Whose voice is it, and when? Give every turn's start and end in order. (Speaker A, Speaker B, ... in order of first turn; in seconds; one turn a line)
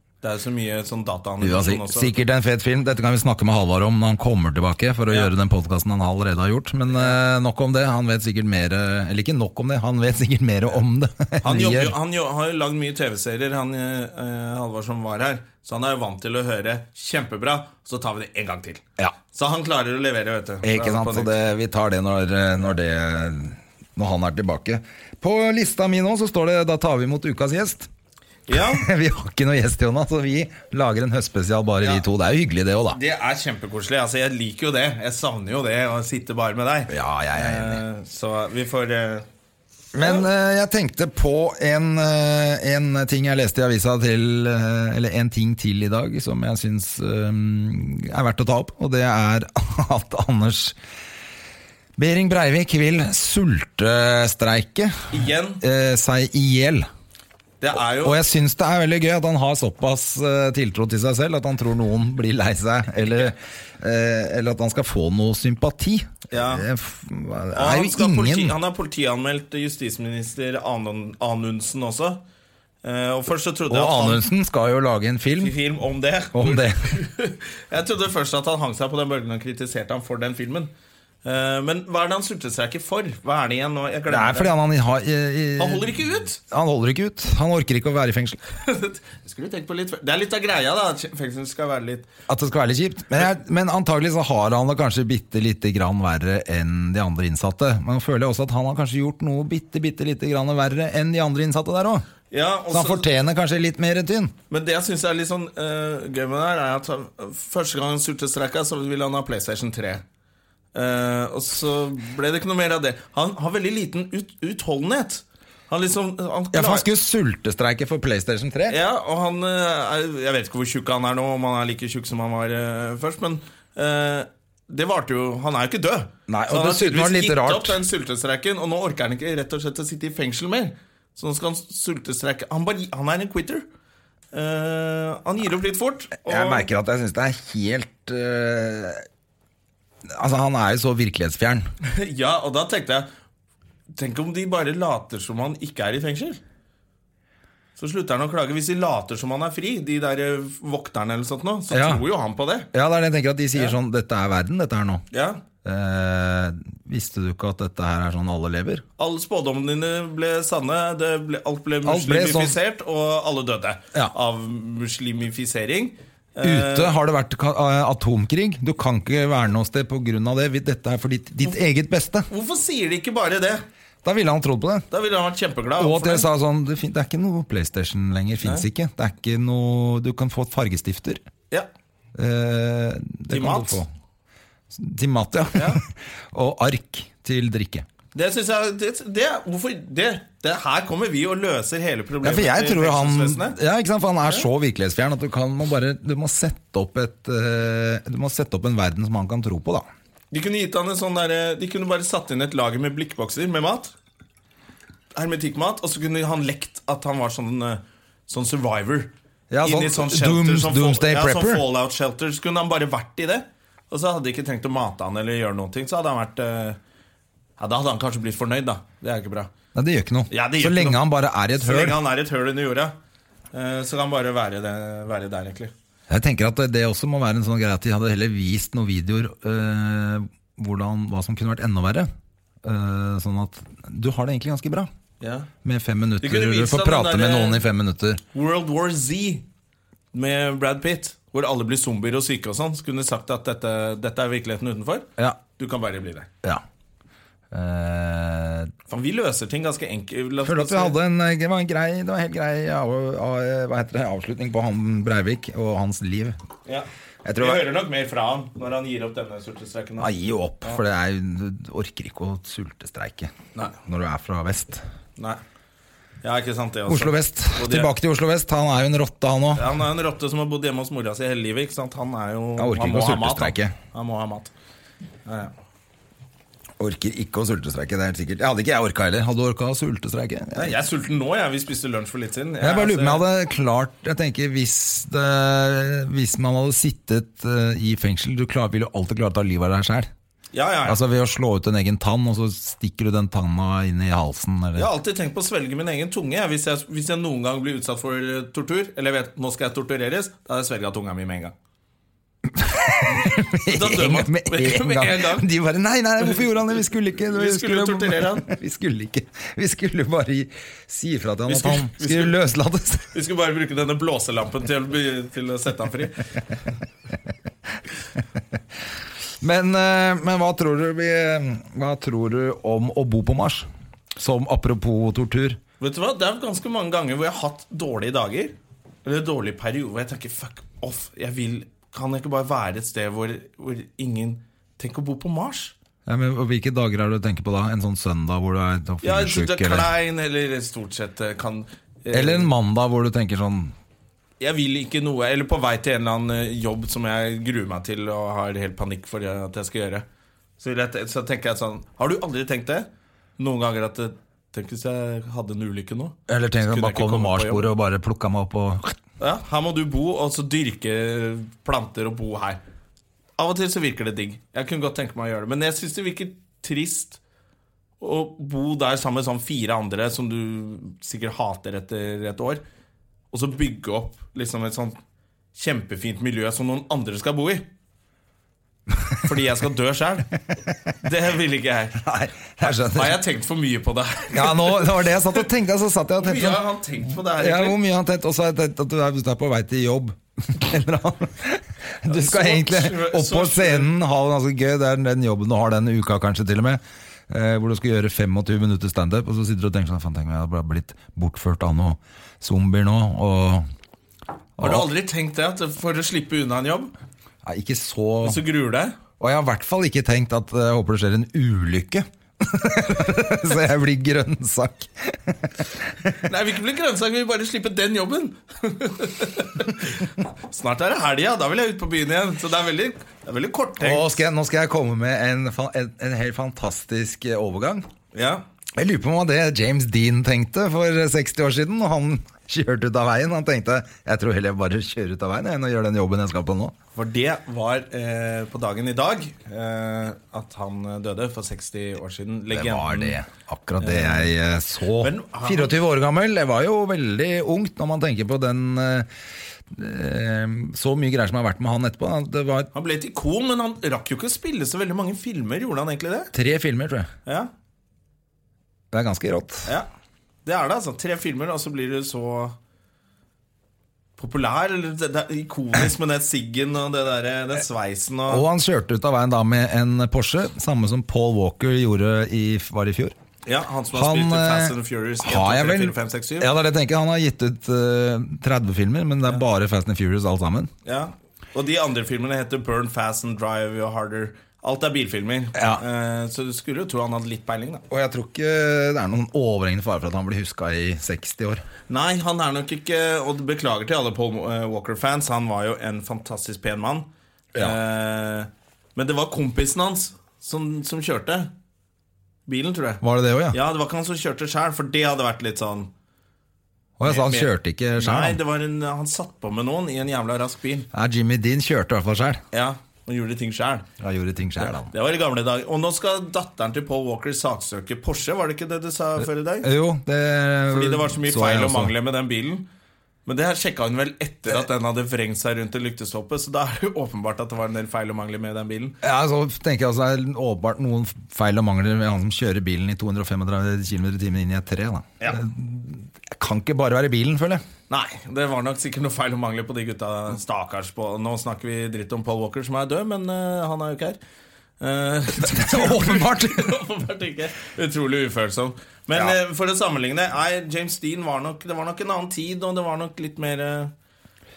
Speaker A: 0.2-2.1
Speaker B: 1.4-11.9
Speaker A: 6.9-7.2
Speaker A: 11.4-21.4
Speaker B: 20.6-27.9
Speaker A: 28.5-28.9
Speaker B: 28.5-33.0
Speaker A: 32.9-39.2
Speaker B: 36.9-37.8
Speaker B: 39.9-50.8
Speaker A: 40.0-40.3
Speaker B: 52.0-56.9
Speaker A: 55.1-55.6
Speaker A: 57.6-58.2
Speaker B: 58.0-68.6
Speaker A: 66.3-66.7
Speaker A: 67.5-72.2
Speaker A: 72.8-74.2
Speaker B: 73.7-75.5
Speaker A: 75.4-80.7
Speaker B: 76.3-76.9
Speaker A: 81.2-84.5
Speaker B: 84.1-88.4
Speaker A: 85.6-86.4
Speaker A: 88.5-92.1
Speaker B: 92.3-102.1
Speaker A: 102.3-103.1
Speaker B: 102.7-104.3
Speaker A: 104.5-110.0
Speaker A: 110.7-116.9
Speaker B: 116.5-118.8
Speaker A: 118.7-133.6
Speaker B: 126.3-127.8
Speaker A: 134.3-136.7
Speaker B: 136.2-139.0
Speaker B: 140.1-141.7
Speaker A: 141.8-143.1
Speaker A: 143.9-146.4
Speaker A: 147.8-152.7
Speaker B: 151.7-152.0
Speaker B: 152.7-155.0
Speaker A: 155.1-155.4
Speaker B: 155.6-158.8
Speaker A: 159.0-166.9
Speaker B: 161.8-162.6
Speaker B: 166.4-172.3
Speaker A: 172.3-173.6
Speaker B: 174.0-174.9
Speaker A: 174.9-176.3
Speaker B: 175.8-181.2
Speaker B: 182.2-183.9
Speaker A: 183.3-183.8
Speaker B: 184.7-187.9
Speaker A: 185.5-185.8
Speaker A: 188.1-193.6
Speaker B: 192.2-199.9
Speaker A: 200.3-203.9
Speaker A: 205.1-216.8
Speaker B: 209.5-211.6
Speaker A: 217.6-219.5
Speaker B: 219.7-222.0
Speaker A: 220.3-221.0
Speaker A: 221.6-222.9
Speaker A: 223.5-225.7
Speaker B: 226.1-232.1
Speaker B: 232.6-234.9
Speaker A: 235.2-235.5
Speaker B: 235.6-238.2
Speaker A: 236.2-237.6
Speaker A: 238.3-239.4
Speaker A: 240.1-246.3
Speaker B: 247.5-248.7
Speaker A: 248.9-251.0
Speaker B: 250.4-256.4
Speaker B: 257.2-257.6
Speaker A: 257.4-260.1
Speaker B: 260.0-263.3
Speaker B: 263.8-264.8
Speaker A: 266.2-267.9
Speaker B: 266.9-269.8
Speaker A: 269.5-274.5
Speaker B: 272.6-273.7
Speaker A: 275.2-275.5
Speaker B: 276.8-280.7
Speaker A: 280.5-283.2
Speaker B: 282.6-290.1
Speaker A: 290.5-291.0
Speaker B: 290.9-294.9
Speaker A: 294.8-301.5
Speaker B: 302.5-313.1
Speaker A: 303.1-305.5
Speaker A: 307.2-308.5
Speaker A: 311.5-312.4
Speaker A: 313.1-316.3
Speaker B: 319.4-325.6
Speaker A: 325.8-335.7
Speaker B: 336.1-339.9
Speaker A: 339.0-342.5
Speaker B: 342.1-343.7
Speaker A: 344.4-350.1
Speaker A: 350.6-357.7
Speaker B: 356.3-358.9
Speaker A: 359.2-362.6
Speaker A: 363.4-367.2
Speaker A: 368.0-372.6
Speaker A: 373.3-375.0
Speaker A: 375.5-377.7
Speaker A: 379.2-380.3
Speaker A: 381.0-382.0
Speaker B: 382.0-383.2
Speaker A: 382.6-385.4
Speaker B: 384.3-386.6
Speaker A: 386.2-387.8
Speaker B: 387.3-403.6
Speaker A: 392.1-393.9
Speaker B: 404.6-404.9
Speaker A: 404.6-406.9
Speaker B: 407.4-408.4
Speaker A: 408.2-409.0
Speaker B: 409.2-416.1
Speaker A: 416.2-424.2
Speaker B: 423.8-427.8
Speaker A: 428.1-428.4
Speaker B: 428.8-436.7
Speaker A: 436.9-443.2
Speaker B: 442.5-449.1
Speaker A: 443.8-444.3
Speaker A: 445.0-445.8
Speaker B: 449.7-452.7
Speaker A: 452.7-456.3
Speaker B: 456.3-457.1
Speaker B: 458.9-459.7
Speaker A: 460.4-462.6
Speaker A: 464.2-468.4
Speaker B: 468.3-473.1
Speaker A: 473.4-476.5
Speaker B: 473.9-480.7
Speaker A: 480.9-487.9
Speaker B: 485.5-485.8
Speaker B: 487.9-491.6
Speaker A: 491.9-501.5
Speaker A: 502.4-505.9
Speaker B: 503.0-503.6
Speaker B: 507.0-508.4
Speaker A: 507.0-510.9
Speaker B: 510.9-512.4
Speaker A: 512.5-513.9
Speaker B: 514.0-514.9
Speaker A: 514.6-519.7
Speaker B: 519.6-521.9
Speaker A: 520.7-522.6
Speaker A: 523.2-529.0
Speaker B: 529.0-537.6
Speaker A: 537.9-544.2
Speaker A: 544.8-553.9
Speaker B: 545.4-546.8